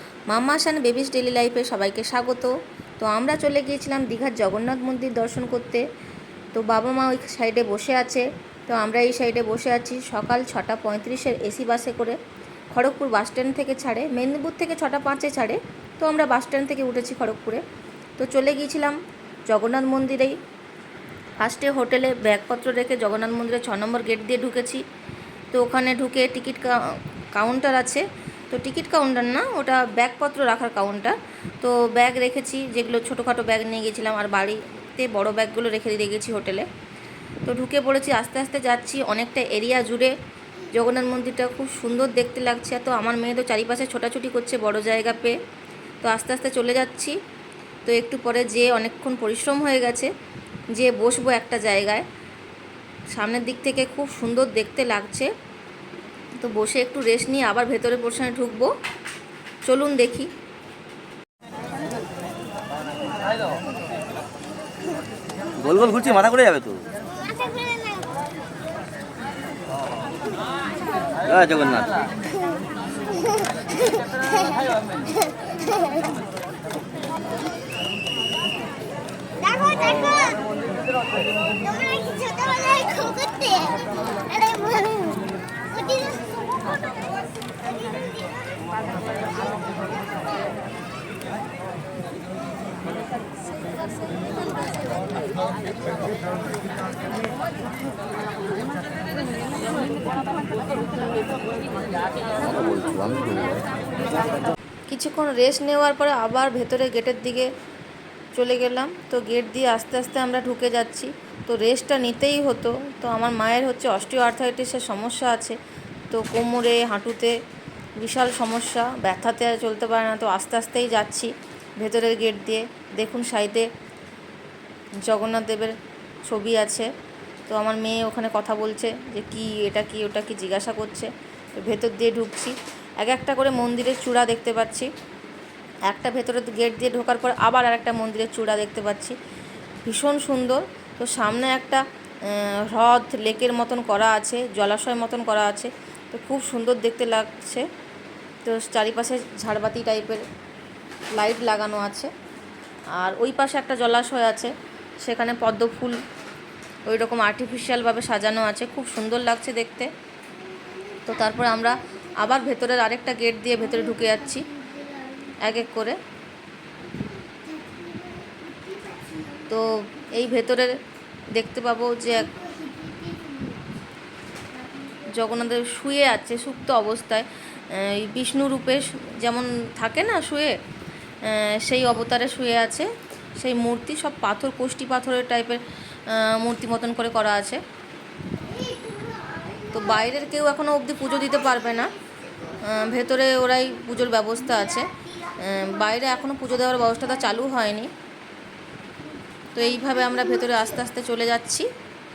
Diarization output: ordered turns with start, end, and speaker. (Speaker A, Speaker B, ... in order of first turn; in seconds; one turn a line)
Speaker A: 0.3-5.8
Speaker A: 6.5-12.2
Speaker A: 12.7-17.6
Speaker A: 18.2-19.0
Speaker A: 19.5-20.4
Speaker A: 21.4-24.8
Speaker A: 25.5-36.6
Speaker A: 37.5-40.1
Speaker A: 40.7-45.4
Speaker A: 46.0-47.1
Speaker A: 47.9-50.1
Speaker A: 50.7-52.0
Speaker A: 53.1-55.3
Speaker A: 56.4-58.7
Speaker A: 59.6-60.3
Speaker B: 65.5-66.9
Speaker B: 71.2-72.0
Speaker C: 79.7-80.2
Speaker C: 82.0-83.8
Speaker C: 84.4-85.1
Speaker B: 102.4-104.2
Speaker A: 104.9-107.5
Speaker A: 108.3-115.6
Speaker A: 116.1-117.3
Speaker A: 118.0-123.7
Speaker A: 125.0-125.8
Speaker A: 126.3-126.9
Speaker A: 127.5-134.9
Speaker A: 135.9-139.2
Speaker A: 139.8-147.7
Speaker A: 148.4-150.2
Speaker A: 151.1-152.1
Speaker A: 153.0-156.0
Speaker A: 156.8-159.9
Speaker C: 160.8-161.4
Speaker A: 161.1-164.5
Speaker C: 163.7-165.5
Speaker A: 165.4-166.0
Speaker C: 166.8-170.1
Speaker A: 169.5-170.8
Speaker A: 171.3-172.3
Speaker C: 172.1-173.8
Speaker C: 174.5-175.4
Speaker A: 175.1-180.6
Speaker A: 181.2-187.6
Speaker C: 188.4-190.2
Speaker A: 189.7-191.9
Speaker C: 191.2-193.0
Speaker A: 192.6-197.9
Speaker C: 194.4-196.9
Speaker A: 199.5-201.7
Speaker C: 199.6-200.6